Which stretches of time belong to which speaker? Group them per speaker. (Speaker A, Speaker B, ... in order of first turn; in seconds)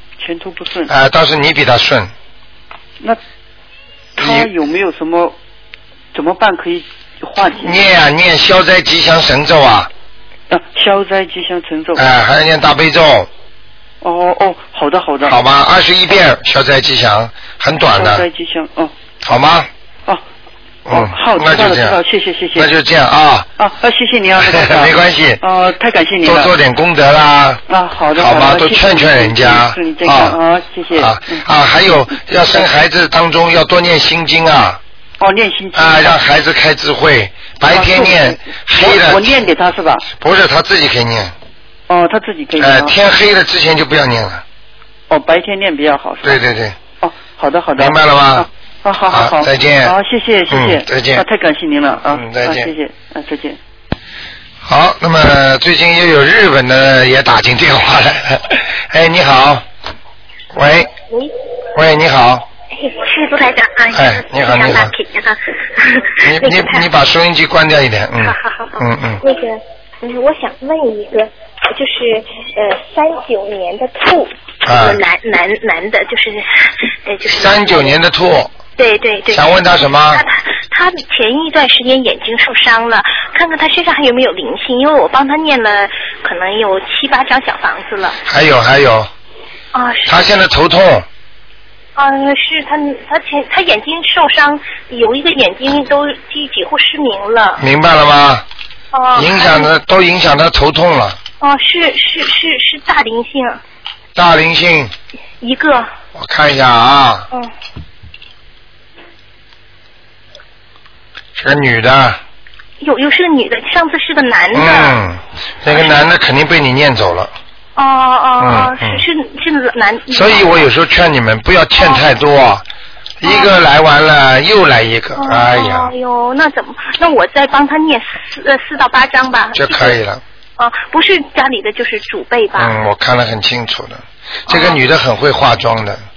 Speaker A: 0.2-0.9, 4.2-5.3, 6.1-7.8, 10.5-12.0, 14.0-15.4, 17.9-18.9, 20.9-22.7, 23.6-26.5, 27.7-31.5, 35.2-36.2, 37.7-40.1, 41.9-42.9, 45.1-46.4, 47.0-53.6
Speaker B: 0.9-2.1, 4.2-4.5, 7.6-9.9, 12.0-13.3, 15.2-18.3, 19.2-19.7, 20.9-22.0, 22.6-23.5, 24.4-25.4, 26.2-27.6, 28.2-30.4, 30.9-34.8, 35.8-39.4, 40.2-41.3, 42.6-44.4, 46.2-46.8, 47.8-48.5, 49.1-50.0, 50.5-51.3, 52.1-52.7, 54.6-59.6, 60.5-60.9, 61.8-62.5, 63.9-64.9, 66.2-69.2, 74.7-75.0, 77.3-78.5, 79.3-80.2, 88.3-89.1, 90.1-91.1, 97.6-98.5, 99.2-101.2, 104.2-104.9, 106.1-107.3, 111.4-112.2, 114.5-117.3, 118.4-119.0, 120.1-122.7, 123.2-125.9, 129.6-130.2, 132.6-136.0
Speaker C: 62.8-66.9, 68.2-78.0, 78.8-88.2, 89.7-90.2, 92.0-97.6, 98.9-99.7, 101.4-103.6, 105.4-105.9, 112.8-115.0, 115.7-115.9, 117.8-120.7, 121.8-122.0, 123.2-123.5, 125.2-130.0, 130.6-132.8, 134.5-134.8